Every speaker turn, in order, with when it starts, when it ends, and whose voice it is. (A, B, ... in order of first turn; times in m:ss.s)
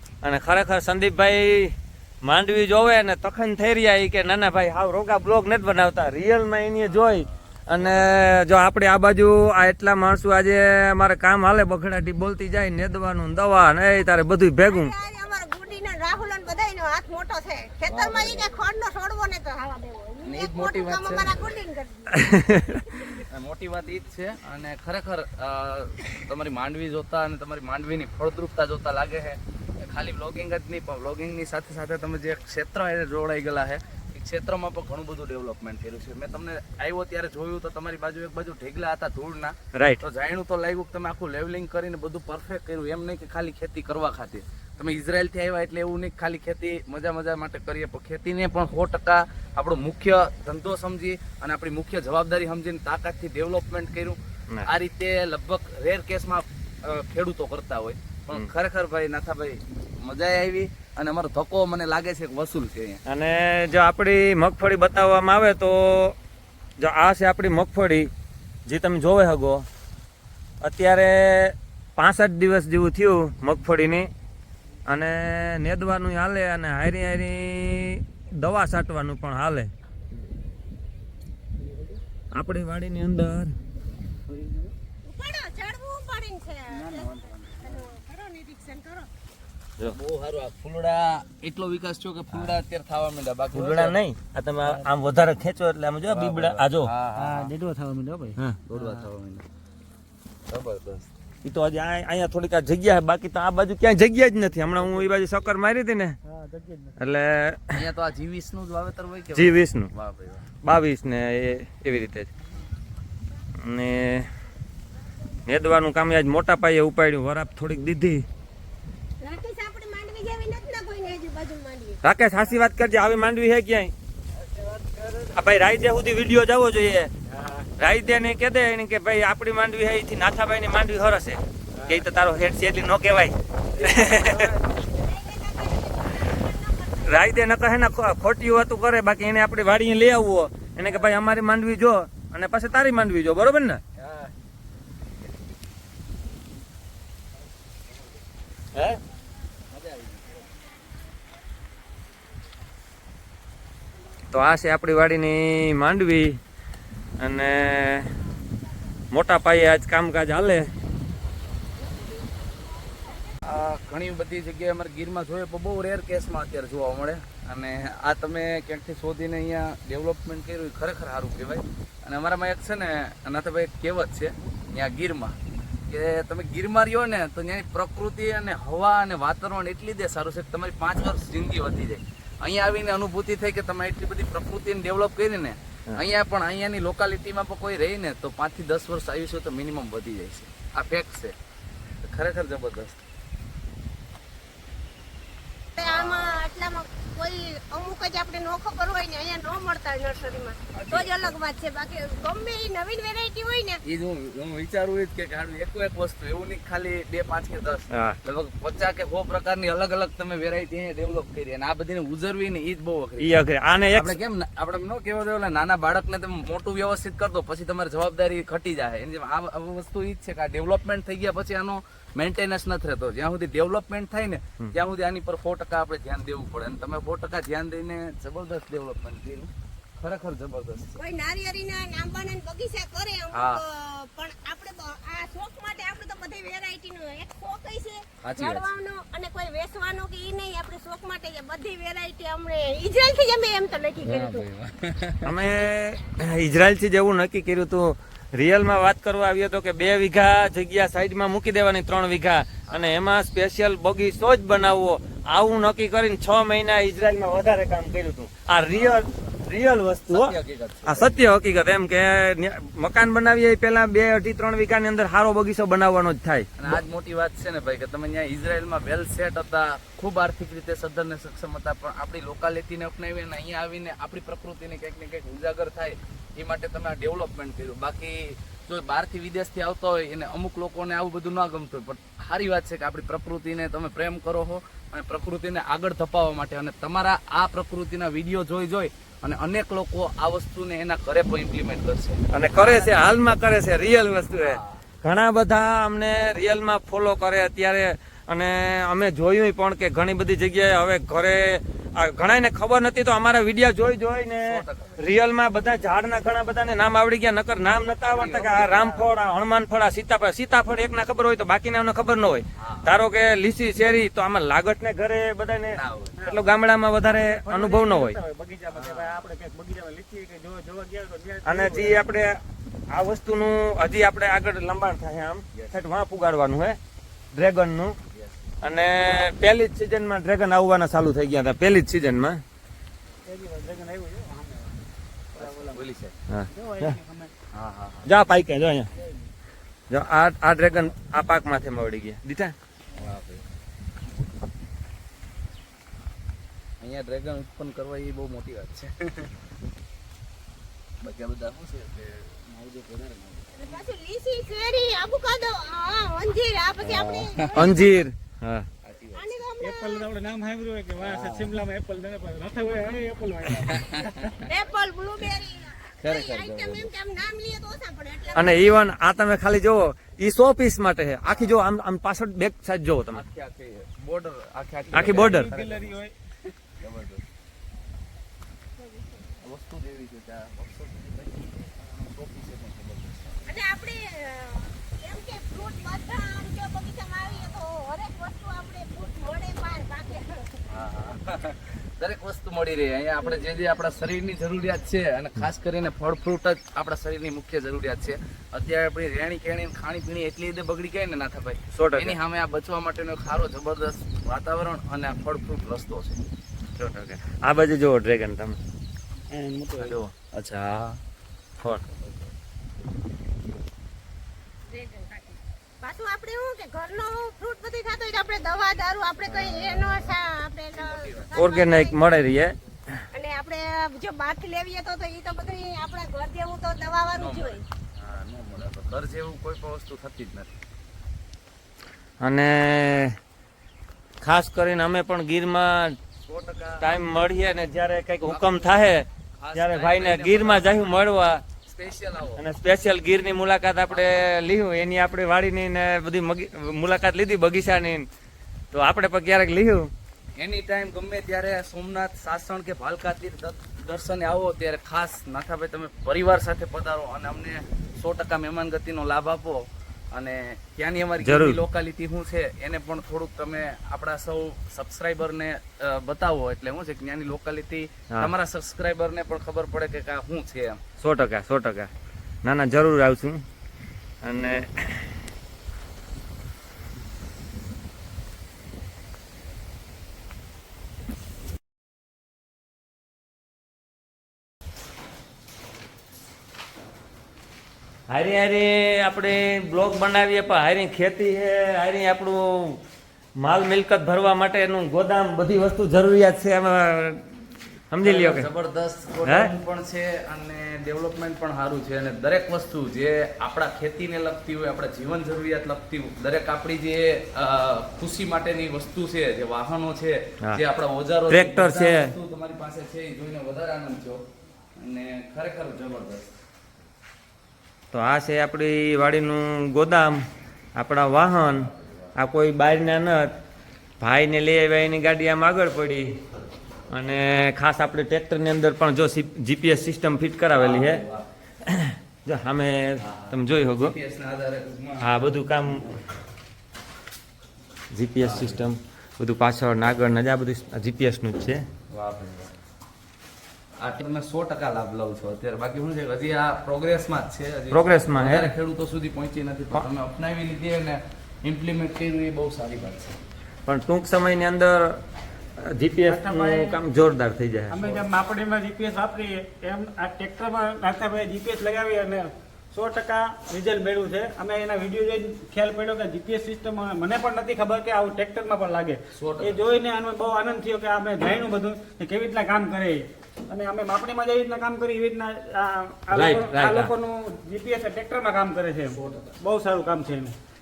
0:00.2-0:14.9 A
0:14.6-0:23.2 B
0:17.9-0:18.5 C
0:20.2-0:21.5 C
0:22.1-0:22.8 A
0:23.2-1:03.0 C
0:39.7-0:40.0 A
1:03.0-1:06.2 A
1:06.8-1:08.1 A
1:08.7-1:09.6 A
1:10.6-1:14.1 A
1:14.9-1:19.7 A
1:22.4-1:23.6 A
1:24.3-1:24.7 D
1:25.0-1:29.1 B
1:26.9-1:27.4 D
1:29.9-1:34.0 C
1:33.5-1:36.9 A
1:36.1-1:37.5 C
1:37.2-1:39.1 D
1:38.7-1:39.5 C
1:40.5-1:41.1 C
1:41.4-1:46.2 A
1:46.3-1:47.0 D
1:47.0-1:47.8 A
1:47.7-1:50.5 C
1:49.4-1:49.9 A
1:50.6-1:52.3 A
1:53.6-1:54.3 A
1:55.5-1:58.2 A
1:59.2-2:02.0 B
2:02.0-2:03.9 A
2:04.5-2:05.2 D
2:05.4-2:07.1 A
2:07.4-2:07.6 D
2:07.8-2:14.5 A
2:13.8-2:14.6 C
2:14.7-2:17.3 B
2:17.0-2:23.8 A
2:24.0-2:24.3 C
2:28.8-2:29.0 A
2:29.7-2:30.4 C
2:34.3-2:36.4 A
2:37.2-2:38.1 A
2:39.1-2:40.7 A
2:43.4-2:55.4 C
2:55.9-3:11.4 C
3:12.0-3:13.0 C
3:15.8-3:23.8 B
3:15.8-3:16.4 C
3:20.7-3:21.4 C
3:23.8-3:33.4 C
3:27.9-3:28.2 A
3:33.2-3:34.2 A
3:33.9-3:51.0 C
3:51.0-4:04.5 B
3:53.3-3:53.6 C
3:58.2-3:58.7 C
4:04.0-4:05.3 C
4:05.2-4:20.4 A
4:18.7-4:19.4 C
4:20.1-4:21.2 C
4:20.9-4:26.8 A
4:26.6-4:53.2 C
4:52.3-5:18.2 A
4:54.4-4:54.8 C
5:04.4-5:05.0 C
5:08.1-5:08.6 C
5:08.1-5:09.1 E
5:12.6-5:13.0 C
5:15.7-5:16.2 C
5:16.2-5:22.1 E
5:18.7-5:19.3 C
5:21.4-5:22.4 A
5:22.9-5:26.8 A
5:25.5-5:25.8 C
5:27.3-5:28.0 A
5:28.6-5:32.4 A
5:33.2-5:34.8 E
5:35.4-5:36.1 C
5:35.4-5:35.8 E
5:36.3-5:37.0 A
5:36.5-5:37.3 E
5:37.5-5:38.1 C
5:38.1-5:38.9 A
5:39.9-5:42.5 A
5:43.0-5:43.4 C
5:46.8-5:49.3 C
5:51.0-5:53.9 C
5:53.6-5:58.1 B
5:56.8-5:57.8 C
5:57.5-5:58.7 A
5:58.8-5:59.4 C
5:59.2-6:00.1 B
5:59.6-6:04.4 E
6:01.0-6:01.5 C
6:03.7-6:04.4 C
6:04.4-6:08.8 B
6:06.0-6:06.9 C
6:08.3-6:13.2 A
6:13.1-6:16.0 C
6:14.9-6:16.1 E
6:14.9-6:15.5 A
6:16.8-6:17.2 C
6:18.8-6:19.3 B
6:19.4-6:23.5 C
6:23.5-6:30.6 B
6:27.2-6:27.6 C
6:30.7-6:46.2 C
6:41.7-6:42.2 A
6:46.8-6:48.6 A
6:49.3-6:50.0 E
6:49.9-6:51.0 C
6:54.7-7:02.0 B
6:59.2-7:00.2 C
7:00.7-7:01.3 C
7:01.4-7:02.6 A
7:03.1-7:07.6 B
7:07.1-7:10.5 C
7:12.2-7:13.2 A
7:14.2-7:16.0 A
7:16.2-7:17.0 C
7:16.8-7:21.4 A
7:18.3-7:18.8 C
7:19.4-7:22.4 C
7:22.4-7:28.1 A
7:23.9-7:24.2 C
7:28.7-7:29.9 A
7:30.4-7:39.6 C
7:40.1-7:50.8 C
7:41.2-7:41.6 A
7:51.0-7:51.9 A
7:52.4-7:53.4 A
7:54.2-7:55.1 A
8:08.1-8:12.8 A
8:13.4-8:17.3 A
8:17.9-8:18.5 A
8:18.0-8:34.2 C
8:19.2-8:19.5 A
8:31.3-8:32.1 A
8:34.8-8:36.4 C
8:37.9-8:40.2 A
8:40.8-8:43.4 A
8:41.5-8:42.1 C
8:44.0-8:46.2 A
8:46.9-8:51.0 A
8:50.5-8:51.3 C
8:51.6-8:54.0 A
8:53.0-8:55.2 C
8:55.0-8:55.9 A
8:57.9-9:01.7 A
8:58.2-8:58.7 C
9:01.9-9:02.5 C
9:03.8-9:13.2 C
9:07.7-9:08.5 A
9:13.7-9:15.0 A
9:15.6-9:18.0 A
9:16.0-9:16.8 E
9:17.7-9:40.4 E
9:29.2-9:29.6 C
9:36.1-9:36.9 A
9:38.9-9:39.3 C